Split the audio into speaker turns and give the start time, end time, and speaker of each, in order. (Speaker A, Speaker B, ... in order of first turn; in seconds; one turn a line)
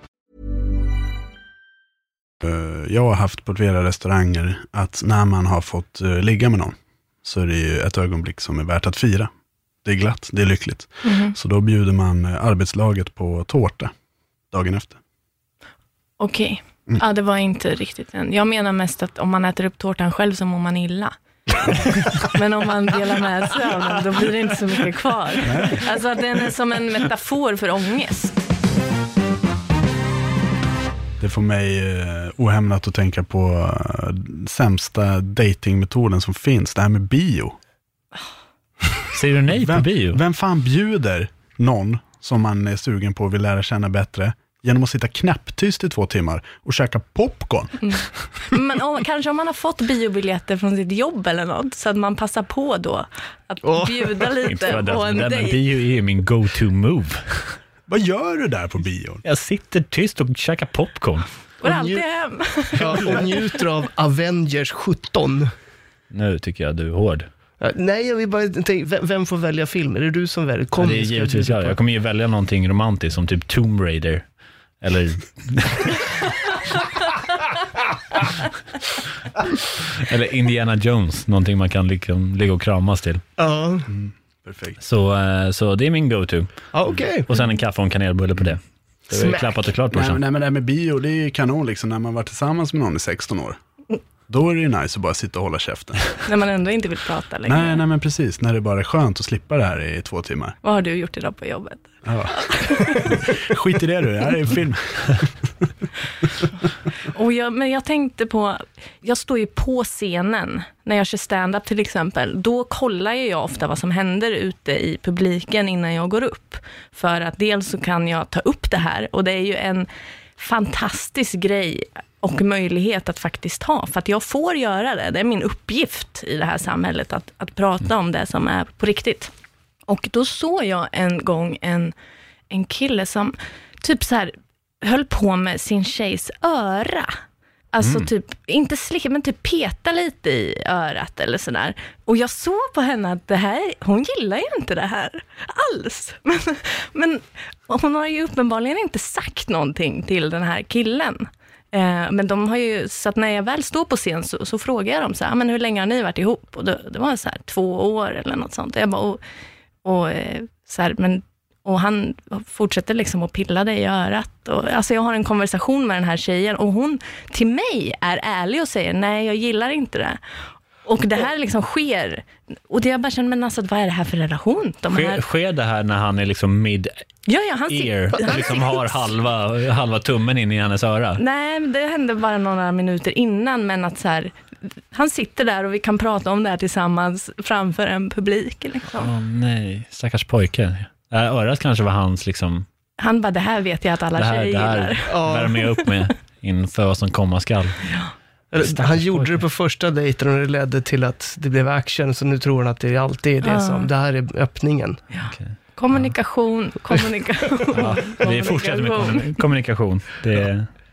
Speaker A: 2.4-9.3
Speaker A: 9.8-13.9
Speaker B: 11.0-11.3
Speaker A: 14.5-15.0
Speaker B: 16.2-21.1
Speaker B: 22.2-28.4
Speaker A: 25.4-25.9
Speaker A: 31.2-37.5
Speaker C: 39.1-40.2
Speaker A: 39.5-48.2
Speaker B: 47.8-55.6
Speaker D: 53.6-54.3
Speaker C: 54.4-57.5
Speaker A: 57.9-59.2
Speaker C: 59.2-61.3
Speaker B: 61.6-63.3
Speaker D: 61.6-62.0
Speaker D: 62.7-65.5
Speaker C: 66.1-67.3
Speaker D: 67.6-71.8
Speaker C: 70.8-74.2
Speaker C: 74.8-76.0
Speaker C: 80.0-83.2
Speaker D: 83.4-83.9
Speaker A: 83.9-84.8
Speaker C: 84.8-86.7
Speaker D: 86.7-87.3
Speaker C: 87.3-90.2
Speaker D: 89.1-89.6
Speaker A: 89.9-93.6
Speaker A: 94.3-96.1
Speaker B: 96.2-97.8
Speaker A: 97.5-100.6
Speaker B: 100.6-103.1
Speaker A: 102.0-105.3
Speaker B: 107.0-129.3
Speaker B: 129.9-131.9
Speaker B: 132.5-137.2
Speaker B: 137.7-159.2
Speaker C: 137.8-138.1
Speaker B: 159.8-170.2
Speaker B: 170.8-175.2
Speaker C: 174.9-176.9
Speaker B: 177.3-179.1
Speaker C: 177.7-181.2
Speaker B: 181.2-184.3
Speaker B: 184.9-189.1
Speaker C: 189.0-192.7
Speaker B: 193.0-195.1
Speaker C: 194.2-197.8
Speaker D: 195.1-195.5
Speaker B: 197.9-198.1
Speaker D: 198.5-205.0
Speaker C: 198.6-199.4
Speaker B: 203.4-203.9
Speaker B: 205.1-209.2
Speaker C: 205.3-206.2
Speaker C: 207.7-210.7